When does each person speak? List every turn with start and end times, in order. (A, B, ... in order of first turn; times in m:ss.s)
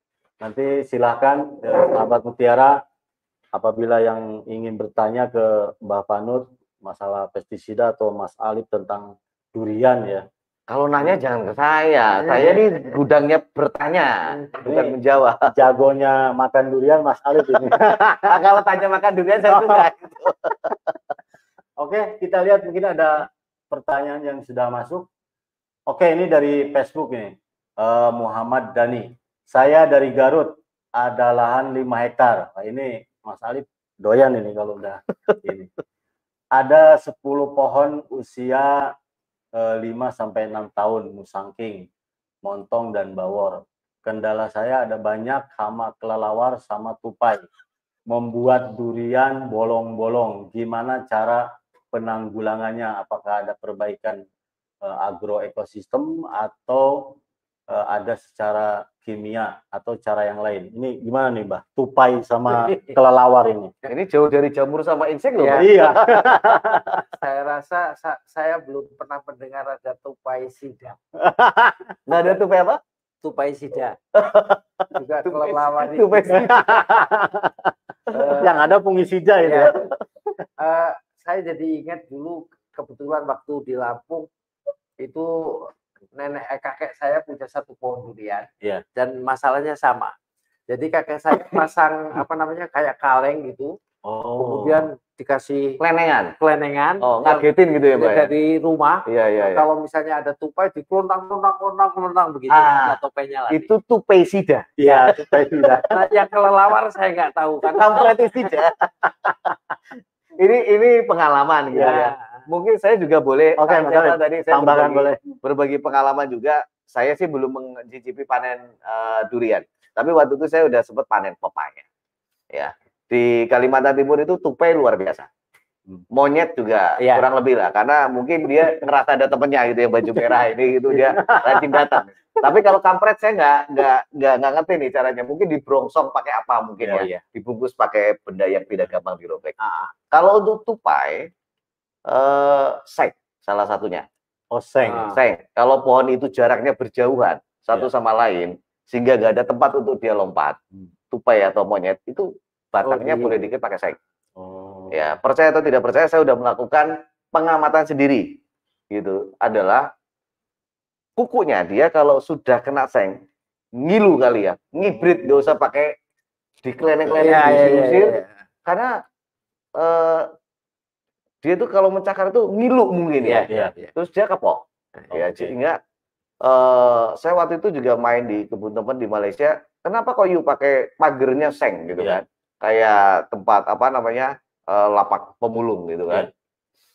0:00.4-0:02.8 A
0:03.5-0:10.2 A
0:10.7-0:15.5 B
0:12.4-0:12.6 C
0:14.6-0:18.4 A
0:17.5-0:20.7 B
0:19.5-0:19.9 A
0:21.8-0:25.1 A
0:25.9-0:35.7 A
0:36.6-0:38.9 A
0:39.6-0:41.9 A
0:42.4-0:47.5 A
0:48.1-0:54.2 A
0:54.8-0:57.2 A
0:57.7-1:03.7 A
1:02.6-1:02.9 C
1:03.9-1:06.4 B
1:05.4-1:05.7 C
1:05.6-1:07.0 A
1:07.0-1:11.0 C
1:11.2-1:12.0 A
1:12.1-1:12.8 B
1:13.2-1:14.0 C
1:14.2-1:16.6 B
1:15.0-1:16.7 C
1:16.5-1:17.7 A
1:18.1-1:18.5 C
1:18.4-1:19.9 A
1:19.4-1:19.7 C
1:20.6-1:24.3 C
1:25.0-1:30.1 C
1:30.7-1:33.8 C
1:34.0-1:34.8 A
1:34.4-1:35.8 C
1:35.8-1:36.4 B
1:36.4-1:43.7 C
1:37.0-1:38.3 B
1:39.1-1:39.7 B
1:42.6-1:42.9 A
1:43.5-1:44.7 B
1:44.8-1:45.9 A
1:45.3-1:45.8 B
1:45.9-1:48.1 C
1:47.6-1:48.8 B
1:50.4-2:01.9 B
1:51.7-1:52.1 A
1:51.7-1:52.4 C
1:53.6-1:55.2 A
2:02.5-2:05.3 B
2:06.1-2:19.5 B
2:07.0-2:07.2 C
2:10.9-2:12.0 A
2:16.9-2:17.2 C
2:19.6-2:19.9 C
2:20.1-2:21.3 B
2:22.1-2:24.1 B
2:24.5-2:25.1 A
2:24.8-2:25.2 C
2:25.1-2:30.6 B
2:31.1-2:34.0 B
2:32.8-2:33.4 C
2:34.4-2:35.2 A
2:34.9-2:38.4 B
2:38.9-2:39.9 B
2:41.2-2:43.2 B
2:43.8-2:46.0 B
2:46.6-2:49.0 B
2:47.2-2:48.3 C
2:47.3-2:47.8 A
2:49.8-2:50.3 B
2:51.4-2:55.8 B
2:53.2-2:53.9 C
2:55.1-2:55.5 A
2:56.4-3:06.3 B